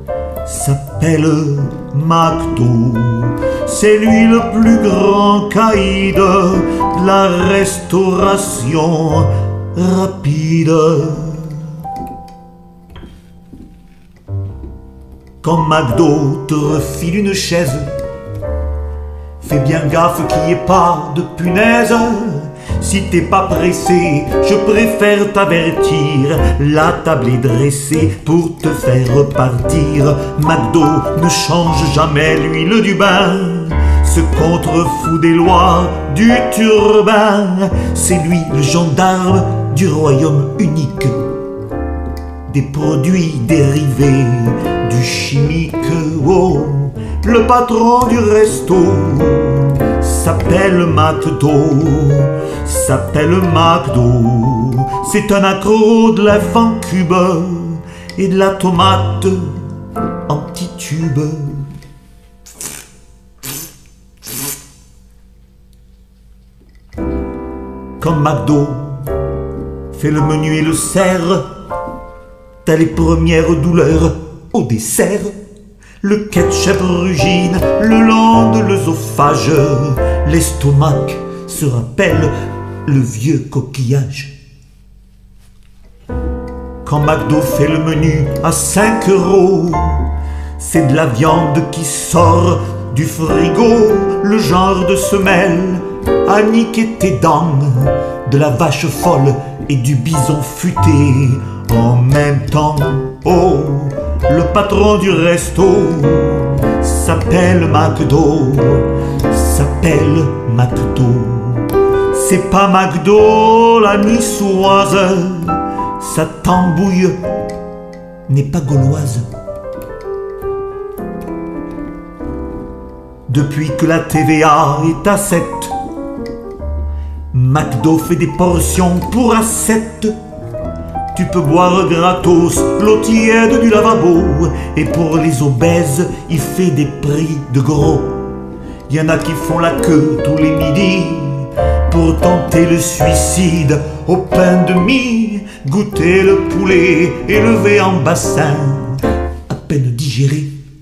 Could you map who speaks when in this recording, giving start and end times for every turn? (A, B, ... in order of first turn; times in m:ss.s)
0:00.4-0:11.6 A
0:15.4-0:17.9 A
0:19.4-0:41.3 A
0:42.5-0:59.6 A
1:00.3-1:01.7 A
1:08.0-1:09.1 A
1:09.9-1:11.5 A
1:12.6-1:15.4 A
1:16.0-1:24.4 A
1:26.8-1:30.1 A
1:30.6-1:57.2 A
1:58.3-1:59.3 A
2:03.3-2:05.7 A
2:07.3-2:10.2 A
2:11.1-2:18.3 A
2:18.9-2:30.6 A